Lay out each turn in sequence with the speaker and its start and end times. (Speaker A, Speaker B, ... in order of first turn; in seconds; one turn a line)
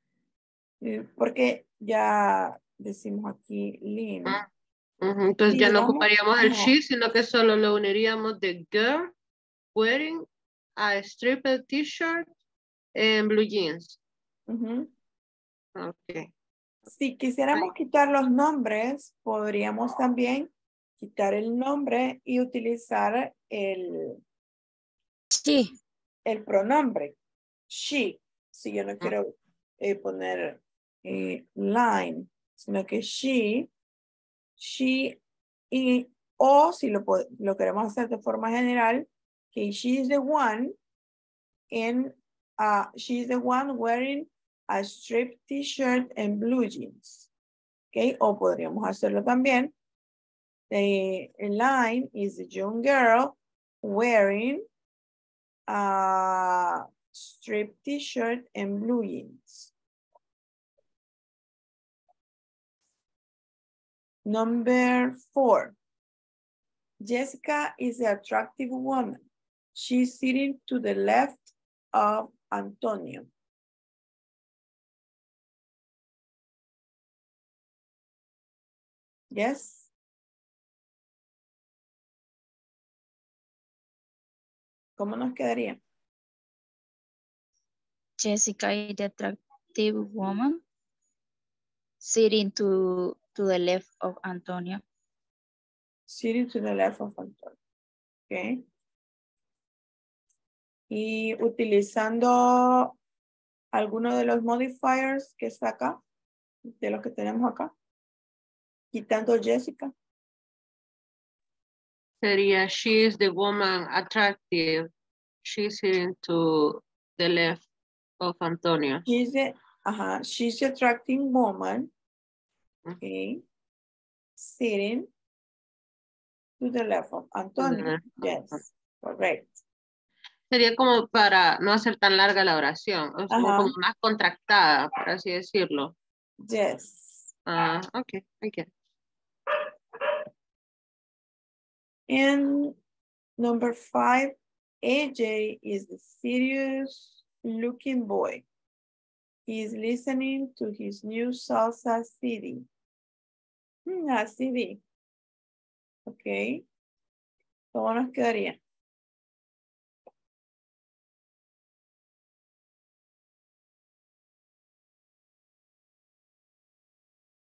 Speaker A: 0.8-4.4
Speaker B: 5.0-9.1
Speaker A: 5.5-6.8
Speaker B: 9.8-10.3
Speaker B: 10.8-12.3
Speaker B: 12.9-14.0
Speaker A: 14.5-14.9
Speaker B: 15.8-16.3
Speaker A: 16.9-24.2
Speaker C: 25.3-25.7
Speaker A: 26.2-27.1
Speaker A: 27.7-33.7
Speaker A: 34.6-35.2
Speaker A: 35.7-40.8
Speaker A: 41.7-47.3
Speaker A: 47.9-49.7
Speaker A: 50.7-54.6
Speaker A: 55.7-59.7
Speaker A: 64.2-65.8
Speaker A: 67.0-73.3
Speaker A: 79.3-79.9
Speaker A: 85.0-85.8
Speaker C: 88.2-90.6
Speaker C: 92.0-94.8
Speaker A: 96.1-97.6
Speaker A: 98.3-98.6
Speaker A: 100.9-103.0
Speaker A: 103.7-106.0
Speaker A: 106.7-107.7
Speaker A: 108.9-109.9
Speaker B: 112.2-114.9
Speaker B: 115.5-117.6
Speaker B: 118.2-119.0
Speaker A: 119.0-121.9
Speaker A: 123.0-123.4
Speaker A: 124.4-125.1
Speaker A: 126.6-129.6
Speaker B: 127.6-128.6
Speaker B: 130.5-135.9
Speaker A: 133.3-133.8
Speaker A: 136.4-137.3
Speaker B: 137.5-138.7
Speaker A: 142.1-142.8
Speaker A: 143.4-148.4
Speaker A: 149.5-152.7
Speaker A: 153.9-154.8
Speaker A: 156.1-156.6
Speaker A: 157.7-158.6